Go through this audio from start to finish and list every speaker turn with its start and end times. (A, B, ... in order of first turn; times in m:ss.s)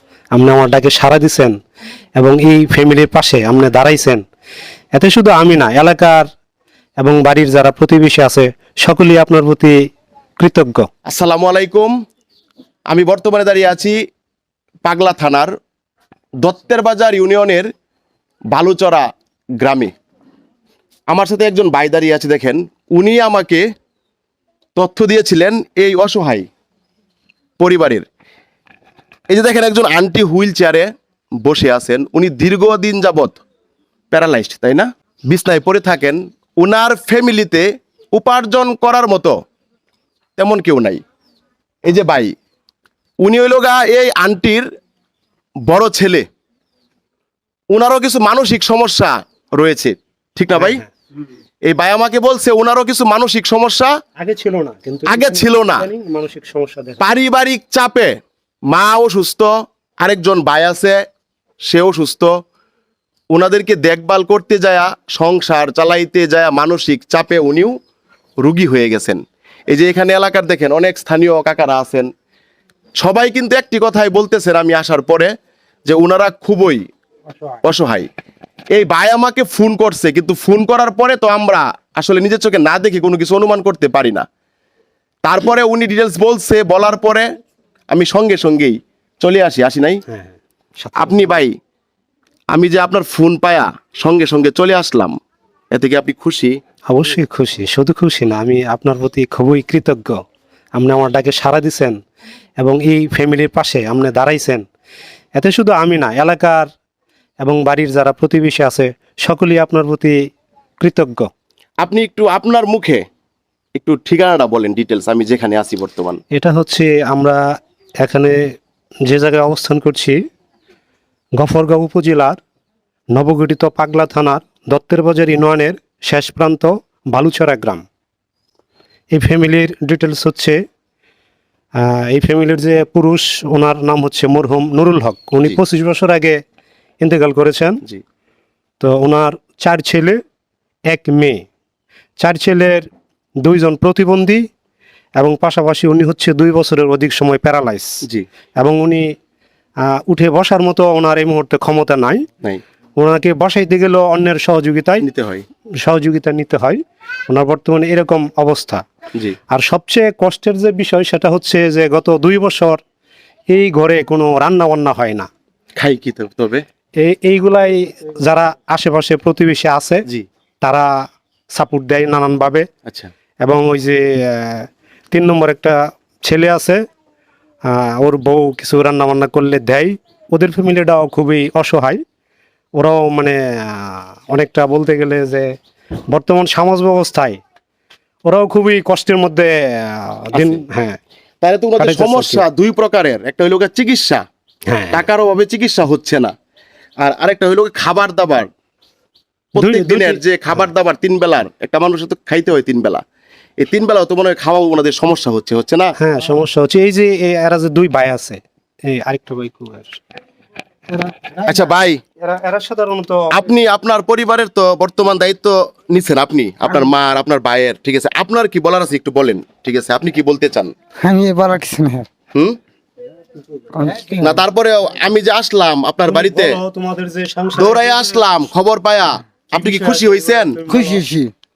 0:00.3-0:01.6 A
0:02.2-0:04.2 A
0:04.9-0:06.3 A
0:07.0-0:09.7 A
0:10.4-0:10.9 A
0:11.0-0:11.9 B
0:12.9-0:14.0 B
0:14.8-0:15.5 B
0:16.4-0:17.7 B
0:18.5-0:19.1 B
0:19.6-0:19.9 B
0:21.1-0:23.6 B
0:24.7-0:26.5 B
0:27.6-0:28.0 B
0:29.3-0:30.9 B
0:31.4-0:33.4 B
0:34.1-0:39.4 B
0:40.4-0:41.0 B
0:41.8-0:42.3 B
0:43.2-0:44.6 B
0:45.7-0:46.2 B
0:47.7-0:50.8 B
0:50.6-0:50.9 A
0:51.6-0:53.9 B
0:54.2-0:57.0 A
0:55.0-0:55.8 B
0:57.0-0:58.1 B
0:58.7-1:01.0 B
1:01.7-1:02.3 B
1:03.3-1:07.7 B
1:08.4-1:12.1 B
1:13.0-1:15.3 B
1:15.9-1:16.8 B
1:17.6-1:18.1 B
1:18.7-1:24.2 B
1:25.2-1:27.3 B
1:27.9-1:30.0 B
1:30.1-1:31.4 A
1:31.0-1:31.5 B
1:32.5-1:35.1 B
1:35.7-1:36.5 B
1:36.9-1:40.2 A
1:40.8-1:42.0 A
1:42.6-1:44.6 A
1:45.4-1:46.7 A
1:47.4-1:50.2 A
1:50.8-1:51.3 A
1:51.8-1:53.0 B
1:53.8-1:56.2 B
1:56.3-1:57.4 A
1:58.0-1:58.5 A
1:59.0-2:00.2 A
2:01.4-2:02.4 A
2:03.1-2:07.8 A
2:09.1-2:10.6 A
2:11.8-2:16.4 A
2:17.0-2:17.8 A
2:18.8-2:20.2 A
2:20.9-2:21.4 A
2:22.2-2:22.9 A
2:23.4-2:24.5 A
2:25.2-2:28.0 A
2:28.6-2:29.1 A
2:29.9-2:32.2 A
2:33.0-2:35.0 A
2:35.0-2:35.4 B
2:35.8-2:38.8 A
2:39.5-2:42.8 A
2:43.5-2:45.3 A
2:45.8-2:46.6 B
2:47.0-2:50.0 A
2:50.6-2:50.9 A
2:51.5-2:52.7 A
2:53.4-2:56.8 A
2:57.7-3:02.0 A
3:02.8-3:05.5 A
3:06.1-3:07.4 A
3:08.2-3:11.0 A
3:10.3-3:10.6 B
3:11.4-3:14.2 B
3:11.8-3:12.4 A
3:14.7-3:15.0 A
3:14.9-3:16.3 B
3:17.0-3:18.5 B
3:19.5-3:23.0 B
3:19.6-3:20.6 A
3:23.6-3:25.9 B
3:26.0-3:30.0 A
3:30.9-3:33.4 A
3:31.4-3:32.0 B
3:33.3-3:40.7 B
3:41.0-3:42.1 C
3:43.7-3:44.4 C
3:44.2-3:46.6 B
3:46.1-3:48.2 A
3:47.6-3:50.6 B
3:49.5-3:51.0 A
3:50.7-3:51.3 C